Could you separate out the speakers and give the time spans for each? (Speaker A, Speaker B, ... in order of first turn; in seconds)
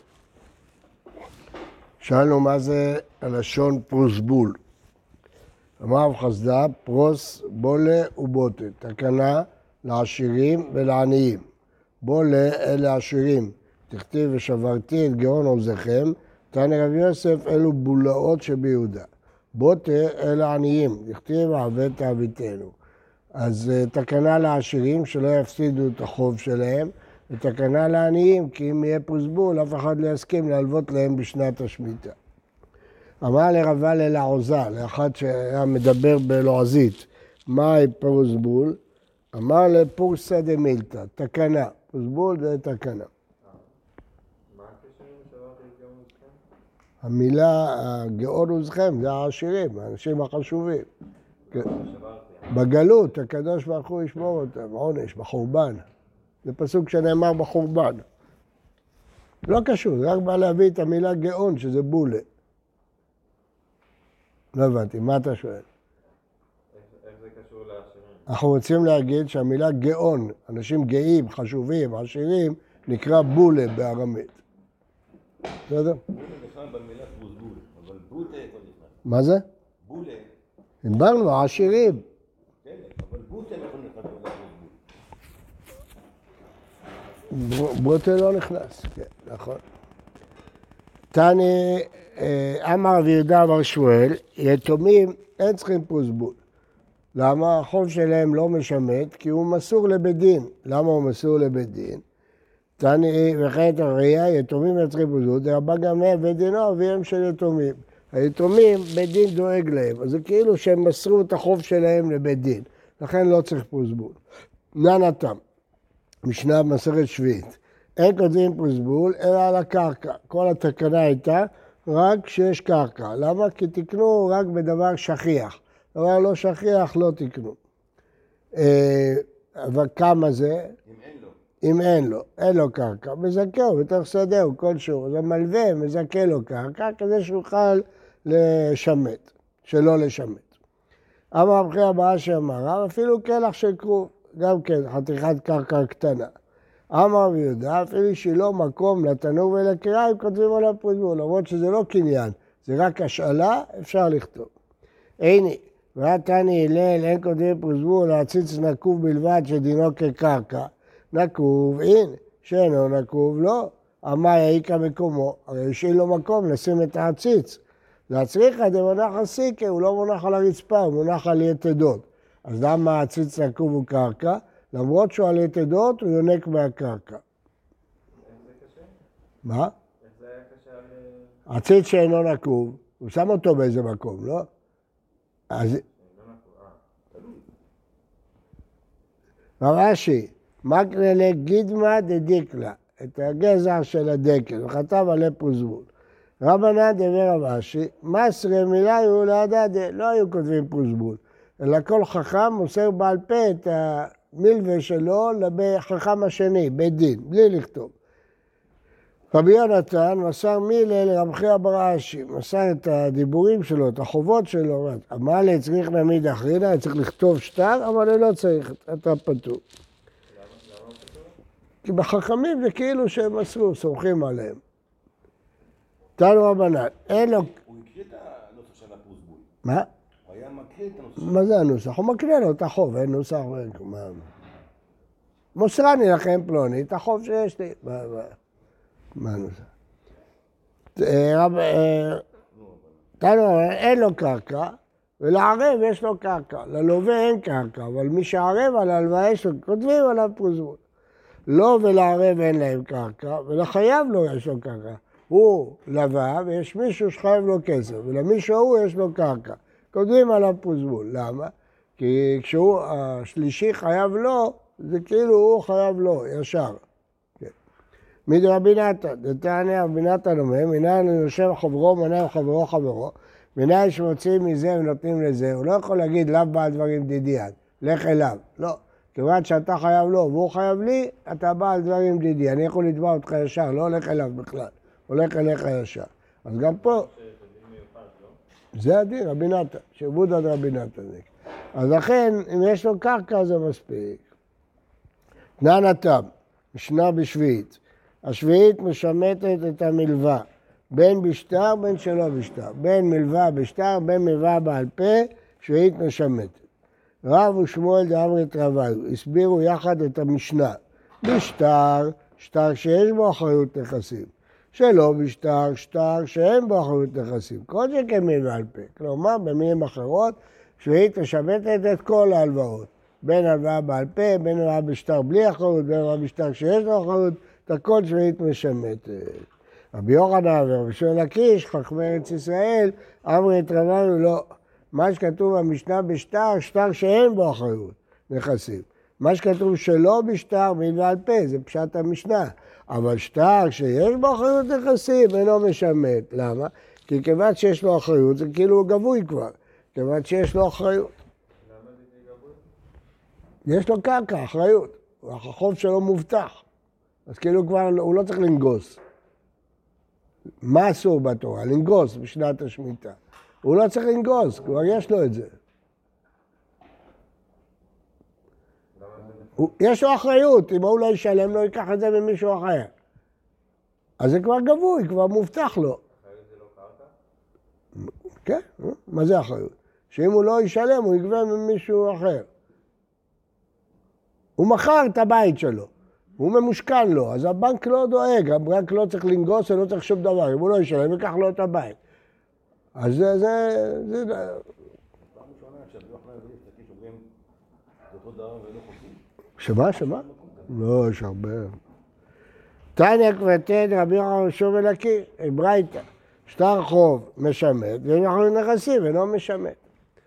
Speaker A: 2.0-4.6, 5.8-11.4, 12.0-22.7, 23.3-32.1, 33.2-38.8, 39.3-43.1, 47.0-50.9, 52.5-55.8, 56.4-58.0, 59.5-62.2, 64.5-65.6, 68.3-74.4, 75.7-76.0, 79.0-79.4, 80.8-82.0, 87.3-89.6, 91.1-96.4, 97.1-102.0, 102.8-114.2, 114.7-115.4, 116.2-127.6, 128.5-130.7, 131.6-140.5, 141.3-146.3, 146.9-154.5, 155.2-177.2, 179.4-179.7, 181.5-184.5, 185.5-185.8, 189.6-195.9, 196.4-207.9, 209.3-219.6, 221.8-224.6, 226.2-227.5, 231.2-234.2, 235.5-238.3, 239.2-239.7, 240.9-242.2, 243.2-250.8, 251.5-266.8, 268.3-287.1, 288.7-294.2, 295.6-306.6, 307.2-351.1, 353.6-356.6, 357.3-359.0, 360.6-365.5, 369.6-372.9, 374.2-376.0, 378.4-382.5, 384.6-392.0, 392.9-394.6, 399.6-401.7, 402.9-409.8
Speaker B: 43.4-43.7, 44.5-46.4, 51.5-53.1, 66.7-68.3, 178.2-178.9, 180.0-181.3, 185.6-186.8, 220.3-221.3, 286.6-288.4, 351.6-352.6, 368.9-369.8, 376.1-377.1
Speaker C: 76.1-79.0, 79.8-80.3, 80.9-82.0, 82.6-84.8, 130.8-131.4, 187.1-187.4, 227.1-229.5, 230.2-231.5, 242.5-243.1, 395.3-397.2, 398.1-399.2, 399.8-400.8